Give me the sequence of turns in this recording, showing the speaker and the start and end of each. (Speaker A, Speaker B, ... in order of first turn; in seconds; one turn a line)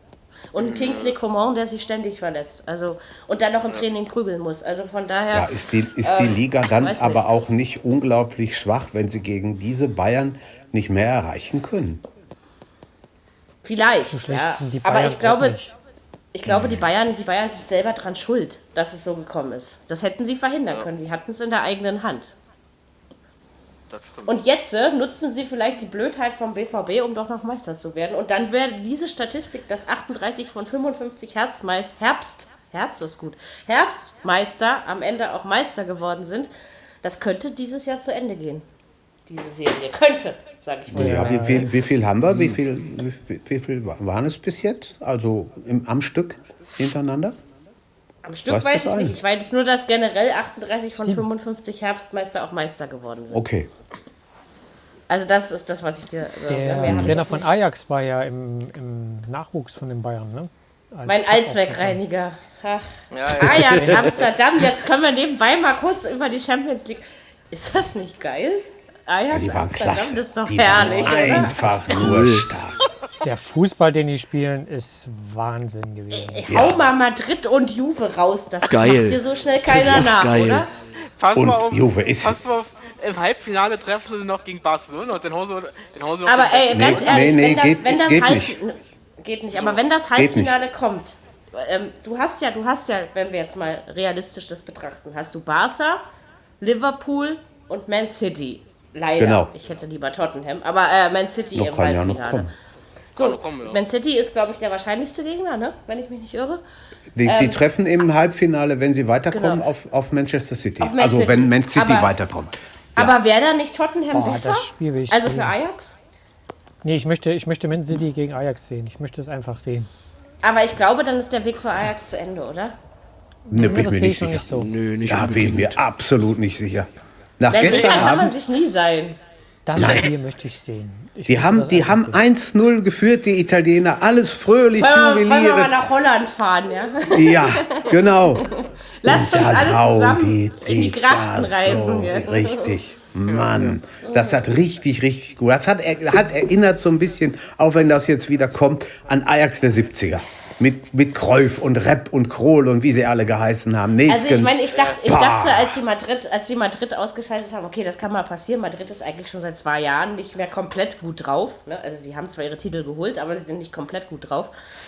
Speaker A: 0.5-7.2
Speaker B: 0.6-1.1
Speaker C: 5.3-12.0
Speaker A: 13.6-15.6
Speaker D: 14.1-15.7
Speaker A: 16.3-22.3
Speaker C: 16.4-16.8
Speaker B: 23.9-24.4
Speaker A: 24.3-36.5
Speaker A: 37.0-38.6
Speaker A: 39.3-41.7
Speaker C: 40.9-47.4
Speaker D: 40.9-41.8
Speaker A: 48.2-53.4
Speaker C: 48.5-49.2
Speaker D: 51.0-51.3
Speaker C: 53.3-53.7
Speaker A: 55.1-57.5
Speaker D: 56.5-62.0
Speaker C: 56.8-57.2
Speaker A: 61.0-72.1
Speaker B: 63.1-64.1
Speaker D: 63.7-64.0
Speaker C: 69.3-72.8
Speaker D: 70.9-71.4
Speaker E: 71.9-72.5
Speaker D: 73.2-76.7
Speaker A: 76.1-80.7
Speaker C: 76.5-76.9
Speaker E: 78.6-80.7
Speaker C: 79.7-80.1
Speaker B: 81.2-87.2
Speaker C: 81.3-82.5
Speaker A: 86.2-96.0
Speaker C: 86.7-88.6
Speaker B: 89.5-89.8
Speaker C: 90.2-90.6
Speaker A: 96.6-102.5
Speaker C: 99.2-99.5
Speaker C: 101.5-102.5
Speaker B: 103.2-103.8
Speaker A: 103.2-106.6
Speaker C: 107.2-113.2
Speaker A: 107.2-107.6
Speaker A: 109.3-109.6
Speaker A: 110.8-112.1
Speaker A: 113.0-115.9
Speaker D: 114.1-115.6
Speaker D: 116.8-119.9
Speaker A: 120.4-122.7
Speaker D: 123.5-124.7
Speaker C: 123.5-124.5
Speaker E: 124.5-125.8
Speaker C: 125.1-128.3
Speaker A: 127.5-129.2
Speaker B: 127.5-128.3
Speaker D: 129.7-132.2
Speaker C: 129.8-130.1
Speaker C: 131.3-135.8
Speaker A: 134.8-142.7
Speaker C: 137.1-138.5
Speaker C: 139.1-155.8
Speaker B: 143.2-143.7
Speaker A: 144.1-144.4
Speaker A: 154.1-164.5
Speaker B: 154.7-155.0